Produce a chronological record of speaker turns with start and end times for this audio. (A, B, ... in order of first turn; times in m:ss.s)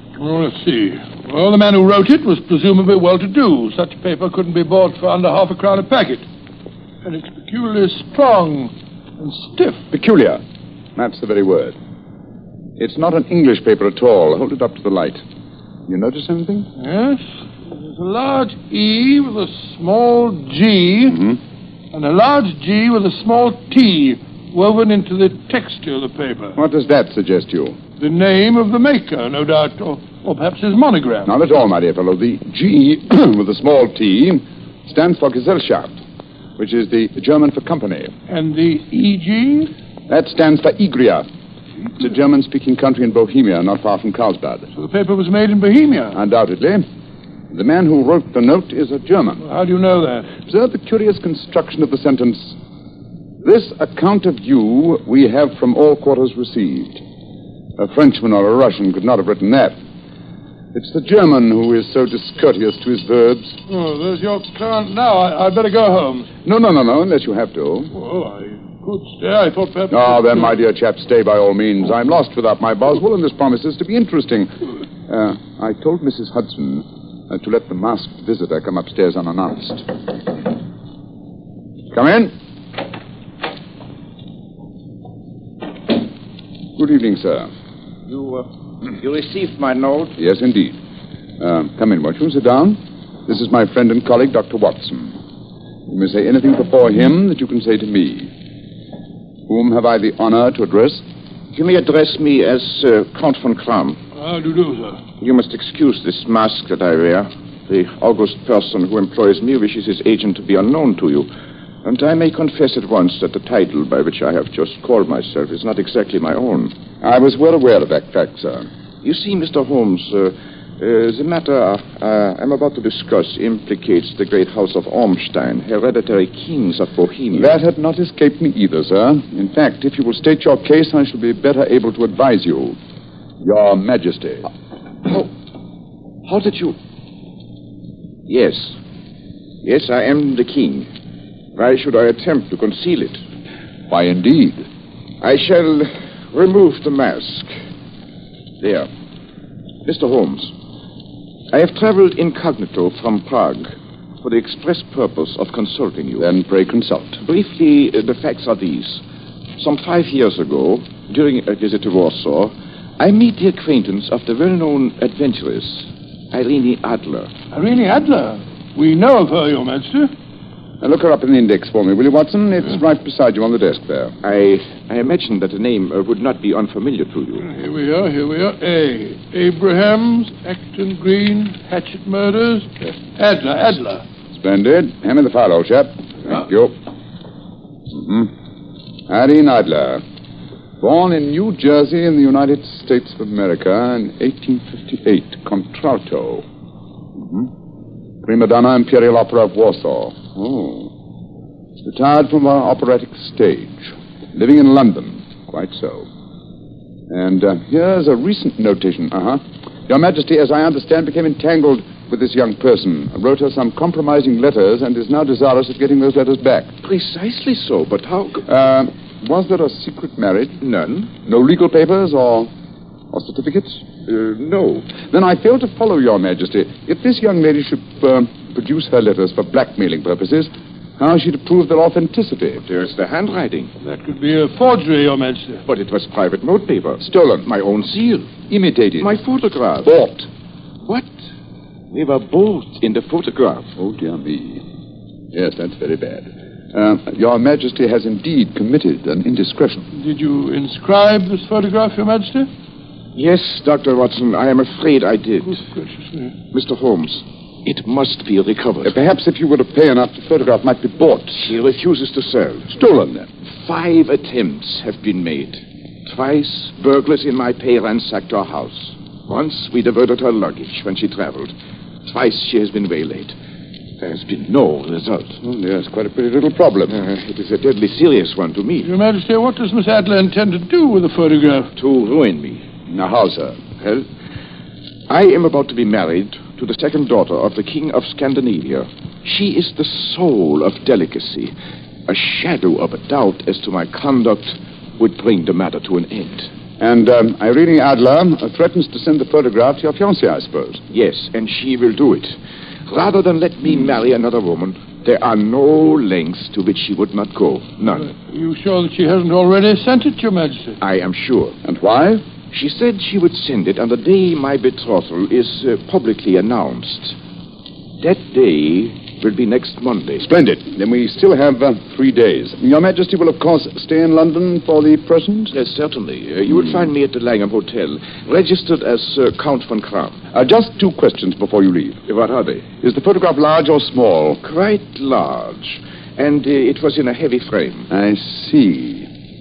0:00.2-0:06.2 A
0:07.0-0:09.8 A
0:09.9-0:10.4 B
0:11.0-0:11.8 B
0:12.8-0:15.2 B
0:15.9-0:16.7 B
0:16.8-0:21.2 A
0:21.9-0:26.6 A
0:26.6-0:27.8 B
0:28.0-0:31.3 A
0:31.3-0:35.9 B
0:36.6-0:38.1 B
0:38.3-0:39.7 A
0:40.1-0:41.3 B
0:42.0-0:44.7 B
0:44.7-0:46.2 A
0:46.1-0:46.9 B
0:47.5-0:49.4 B
0:49.4-0:50.3 A
0:50.4-0:52.6 B
0:53.4-0:57.0 B
0:57.8-0:59.8 B
1:00.7-1:03.6 B
1:03.7-1:06.3 A
1:06.4-1:07.9 B
1:07.9-1:10.6 A
1:09.9-1:14.5 B
1:15.1-1:19.9 B
1:21.9-1:22.3 B
1:26.8-1:27.5 B
1:28.1-1:30.2 C
1:30.2-1:30.8 B
1:31.4-1:35.2 B
1:35.9-1:38.3 B
1:39.5-1:41.0 B
1:41.5-1:44.0 C
1:44.2-1:45.0 A
1:45.2-1:51.3 C
1:51.8-1:56.8 C
1:57.0-1:58.7 B
1:59.0-2:07.6 C
2:07.3-2:12.8 B
2:13.4-2:14.5 B
2:16.3-2:16.8 C
2:18.3-2:18.8 C
2:19.6-2:20.9 C
2:21.6-2:23.2 C
2:23.9-2:24.7 B
2:25.2-2:27.5 C
2:28.6-2:28.9 C
2:29.8-2:30.5 C
2:31.5-2:36.3 C
2:36.2-2:37.2 B
2:37.2-2:39.0 C
2:39.6-2:47.3 C
2:47.5-2:50.1 A
2:50.8-2:54.2 B
2:54.2-2:57.5 C
2:57.4-3:04.0 A
3:04.3-3:06.8 B
3:07.9-3:08.3 B
3:09.1-3:10.0 B
3:10.8-3:16.5 B
3:17.2-3:17.5 B
3:18.2-3:20.9 B
3:21.8-3:26.1 B
3:27.1-3:36.7 B
3:36.8-3:38.5 C
3:38.5-3:40.6 B
3:40.6-3:41.1 C
3:41.2-3:42.5 B
3:43.1-3:52.6 B
3:44.1-3:44.8 C
3:52.7-3:53.7 C
3:53.8-3:55.6 A
3:55.7-3:58.4 C
3:57.0-3:57.5 B
3:58.5-3:59.2 B
3:59.0-3:59.9 C
3:59.8-4:00.3 B
4:00.8-4:01.1 C
4:01.9-4:03.7 C
4:03.8-4:04.6 B
4:05.3-4:09.9 B
4:09.9-4:12.5 A
4:13.2-4:15.6 C
4:15.5-4:16.3 A
4:16.5-4:19.0 C
4:18.8-4:21.5 B
4:21.4-4:22.8 C
4:22.7-4:23.3 B
4:23.5-4:31.5 C
4:32.0-4:33.4 C
4:34.0-4:35.4 C
4:35.4-4:37.1 B
4:36.9-4:38.9 C
4:38.8-4:41.7 A
4:41.8-4:42.6 C
4:42.9-4:44.0 B
4:45.1-4:51.5 C
4:52.1-4:56.5 C
4:56.8-5:00.8 B
5:00.9-5:08.1 C
5:08.0-5:10.8 A
5:10.8-5:11.6 C
5:11.6-5:12.2 B
5:12.5-5:17.2 C
5:18.0-5:20.2 C
5:20.2-5:25.5 B
5:25.5-5:30.2 C
5:30.3-5:32.0 B
5:32.1-5:32.7 C
5:32.8-5:34.4 B
5:34.4-5:37.9 C
5:37.9-5:39.1 B